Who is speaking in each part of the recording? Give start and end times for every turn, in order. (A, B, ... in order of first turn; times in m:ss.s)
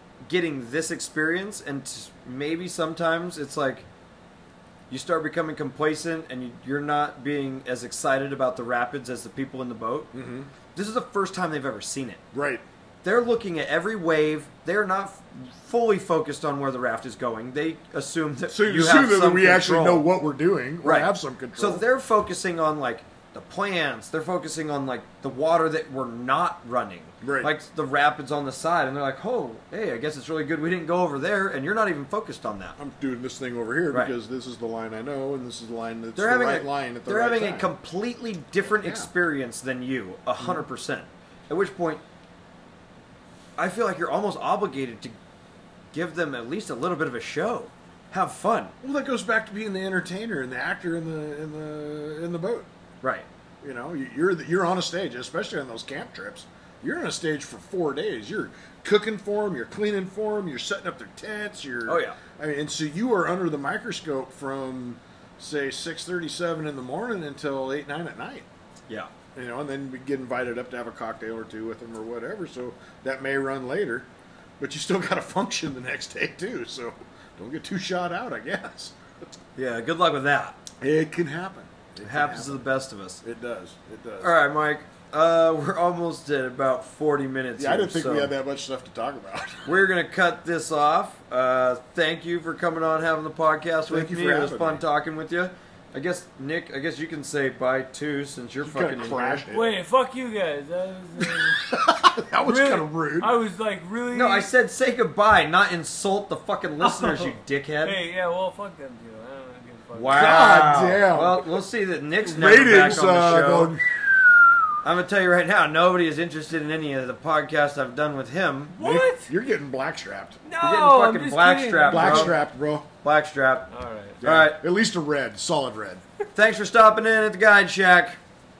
0:00.3-0:03.8 A
0:04.9-0:10.1 A
0:10.1-0:10.5 B
0:10.7-0:12.2 A
0:12.3-0:12.6 B
0:13.0-0:20.0 A
0:18.5-0:21.8 B
0:20.8-0:32.8 A
0:27.2-0:27.5 B
0:32.8-0:37.7 B
0:36.1-0:42.0 A
0:38.6-0:39.1 B
0:40.4-0:40.6 B
0:43.6-0:45.1 A
0:45.9-0:48.7 A
0:48.8-0:52.7 B
0:53.6-1:08.5 B
1:01.8-1:02.2 A
1:09.3-1:14.1 B
1:14.6-1:19.0 B
1:19.6-1:20.6 A
1:20.8-1:22.7 B
1:22.0-1:23.2 A
1:23.2-1:24.3 B
1:24.2-1:28.3 A
1:27.6-1:29.7 B
1:29.6-1:39.4 A
1:33.9-1:34.8 B
1:38.6-1:39.6 B
1:39.5-1:41.7 C
1:41.3-1:43.3 B
1:42.4-1:44.5 C
1:44.1-1:48.0 A
1:46.8-1:50.5 C
1:49.9-1:53.8 A
1:50.1-1:51.6 B
1:52.2-1:53.8 B
1:54.8-1:58.8 A
1:58.7-1:59.3 C
1:58.8-2:00.4 B
2:00.4-2:02.4 C
2:00.6-2:02.4 A
2:01.9-2:02.9 B
2:03.0-2:03.7 A
2:03.7-2:04.2 C
2:04.2-2:04.6 A
2:04.2-2:06.0 B
2:06.3-2:08.2 A